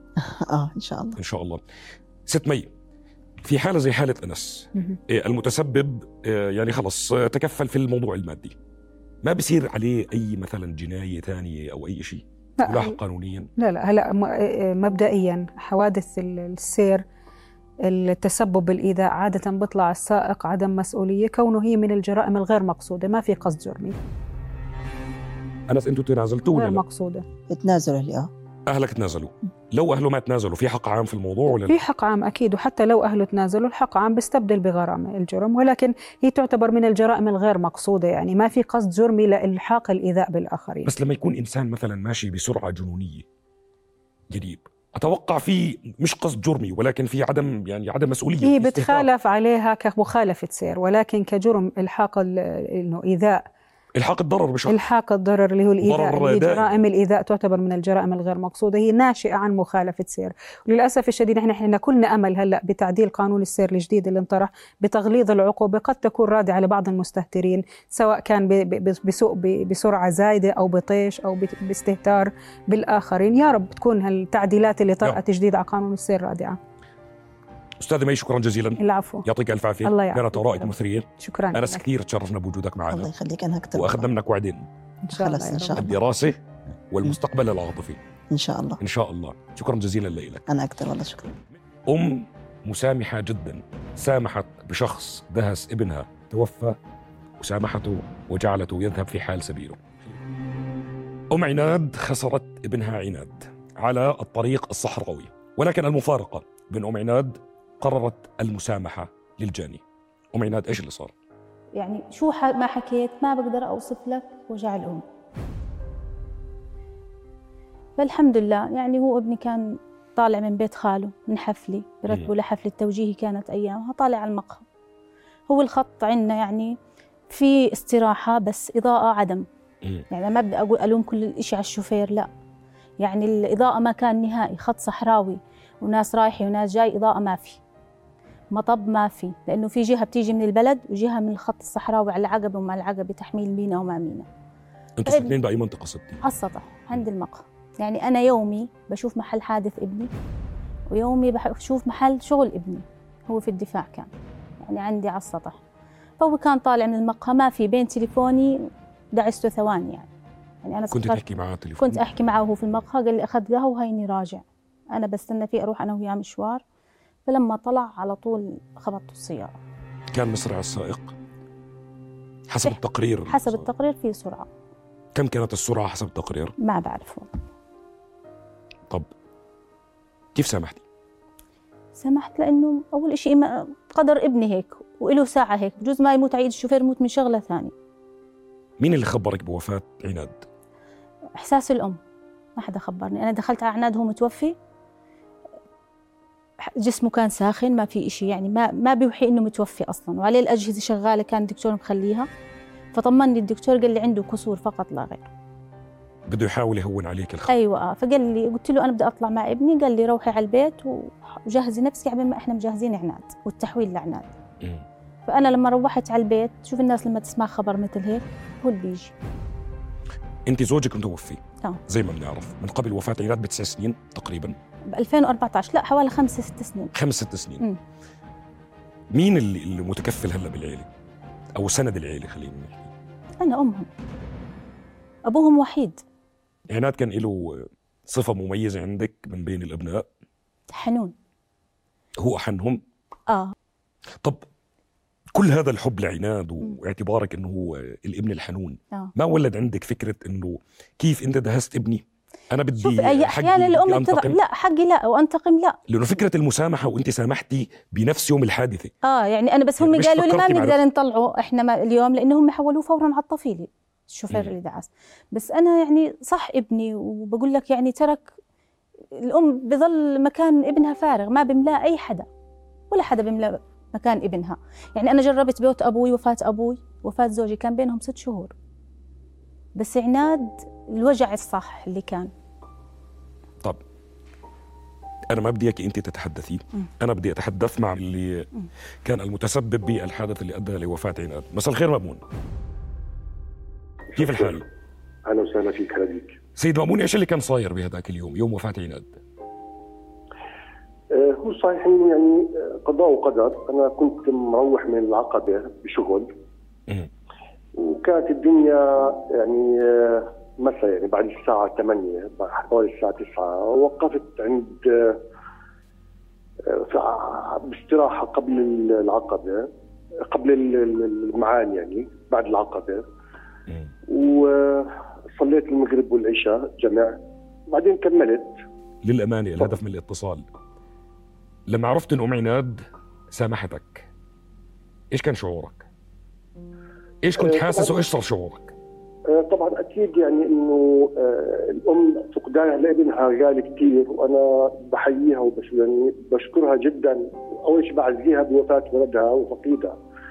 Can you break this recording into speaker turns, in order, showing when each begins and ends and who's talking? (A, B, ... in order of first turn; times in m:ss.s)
0:00.2-0:01.2 A
0:01.2-0:01.6 B
0:02.3-0:02.7 B
0:03.4-0:08.6 B
0:09.2-0:13.5 B
0:12.6-0:13.0 C
0:13.6-0:17.0 C
0:17.8-0:24.0 C
0:25.7-0:26.8 B
0:26.5-0:27.2 C
0:27.5-0:28.3 A
0:28.7-0:31.8 B
0:31.6-0:40.9 C
0:40.8-0:43.2 B
0:44.3-0:49.1 B
0:48.4-0:53.5 C
0:54.0-0:54.8 B
0:54.7-1:16.6 C
0:55.8-0:56.7 B
1:17.8-1:23.1 B
1:18.8-1:19.3 C
1:19.8-1:21.8 C
1:22.9-1:24.1 A
1:23.7-1:24.7 B
1:25.0-1:25.8 C
1:25.1-1:25.9 A
1:25.7-1:26.4 B
1:26.9-1:28.0 B
1:28.3-1:28.8 A
1:28.8-1:30.4 B
1:30.5-1:31.3 A
1:31.9-1:36.8 B
1:37.4-1:40.0 B
1:41.3-1:49.8 B
1:50.3-1:51.1 B
1:51.8-1:55.0 D
1:58.0-2:04.6 D
2:05.5-2:06.8 D
2:07.3-2:09.5 D
2:10.1-2:12.3 D
2:13.0-2:17.6 D
2:18.5-2:24.3 D
2:25.0-2:26.2 B
2:25.1-2:25.3 D
2:26.2-2:30.1 D
2:30.9-2:35.6 D
2:36.2-2:40.1 D
2:40.6-2:41.2 D
2:40.9-2:42.0 B
2:41.8-2:46.6 D
2:47.3-2:49.6 D
2:50.1-2:51.2 B
2:52.5-2:53.7 B
2:52.6-2:54.5 D
2:55.2-2:56.6 B
2:56.6-2:57.3 D
3:00.4-3:00.8 B
3:02.0-3:07.7 D
3:08.8-3:10.4 B
3:11.4-3:12.0 D
3:12.6-3:14.6 D
3:16.8-3:22.3 D
3:22.9-3:25.3 D
3:26.3-3:27.6 B
3:27.5-3:34.3 D
3:35.3-3:39.1 D
3:40.5-3:44.6 B
3:44.9-3:46.9 D
3:47.0-3:47.6 B
3:49.1-3:50.9 B
3:51.6-3:52.9 B
3:53.4-3:53.9 D
3:55.3-3:56.0 D
3:56.7-4:00.1 B
4:00.7-4:01.1 D
4:02.2-4:02.8 B
4:03.3-4:03.5 D
4:05.4-4:14.4 B
4:12.8-4:15.8 D
4:15.9-4:18.9 B
4:19.0-4:28.3 D
4:19.8-4:20.8 B
4:29.2-4:32.3 D
4:32.9-4:38.5 D
4:39.8-4:42.3 D
4:45.3-4:48.5 B
4:49.0-4:52.2 B
4:54.2-4:54.6 B
4:54.2-4:54.6 E
4:55.3-4:56.4 E
4:56.6-4:59.2 B
5:01.1-5:06.3 E
5:07.8-5:15.2 E
5:16.7-5:19.7 E
5:20.3-5:23.0 E
5:24.1-5:28.6 E
5:29.0-5:30.5 B
5:31.7-5:34.1 B
5:35.1-5:35.9 B
5:37.2-5:38.7 B
5:37.4-5:38.0 E
5:39.3-5:50.0 E